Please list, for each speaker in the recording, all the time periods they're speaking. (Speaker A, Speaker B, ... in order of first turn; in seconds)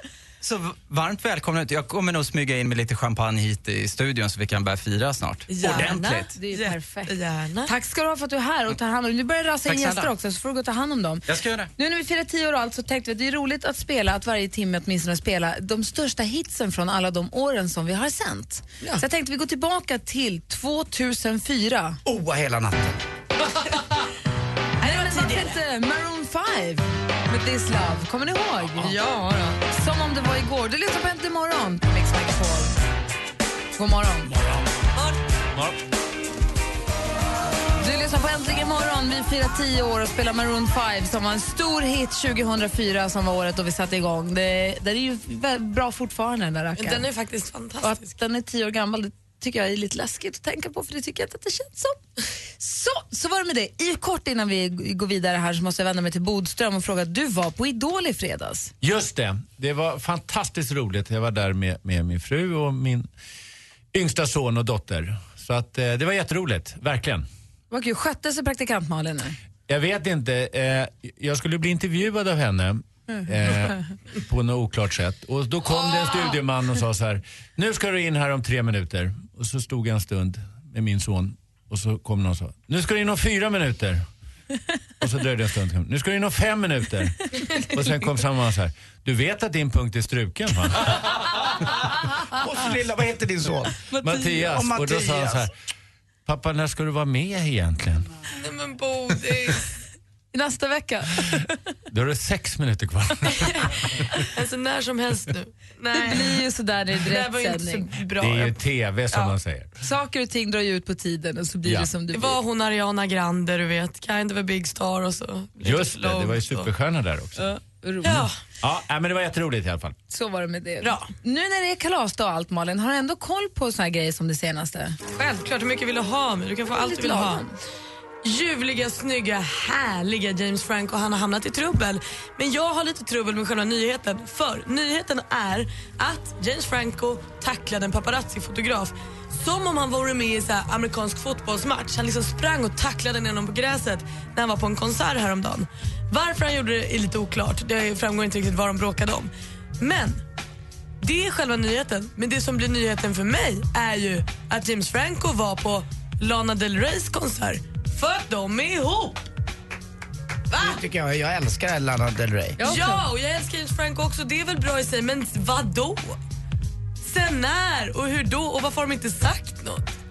Speaker A: 0.4-6.3
Speaker B: 5.5-7.7, 24.8-25.6, 28.8-29.6, 46.8-48.1, 75.9-76.3, 98.4-99.6, 103.4-103.7, 104.2-106.4, 107.0-109.3, 112.1-116.7, 118.0-118.3, 120.8-121.1, 125.1-127.4, 128.2-150.2, 151.0-159.2, 160.5-160.8, 162.6-166.2, 167.0-169.9
Speaker C: 6.3-7.1, 7.7-11.2, 11.8-22.0, 24.8-29.0, 29.7-32.8, 33.8-34.3, 37.8-47.1, 47.8-52.0, 52.6-58.7, 67.7-69.4, 93.9-94.4, 100.3-101.4, 105.9-107.9, 109.8-112.4, 117.4-118.3, 120.1-125.0, 126.7-127.5, 162.6-163.0
Speaker D: 9.7-10.0, 11.3-11.7, 58.8-63.1, 63.9-67.3, 69.7-84.0, 85.0-91.2, 94.0-95.5, 96.3-98.1, 101.9-103.7, 108.2-109.8, 111.6-111.9, 115.6-117.5, 118.6-120.0
Speaker E: 22.1-23.0, 92.4-93.8, 94.5-95.5, 160.5-162.6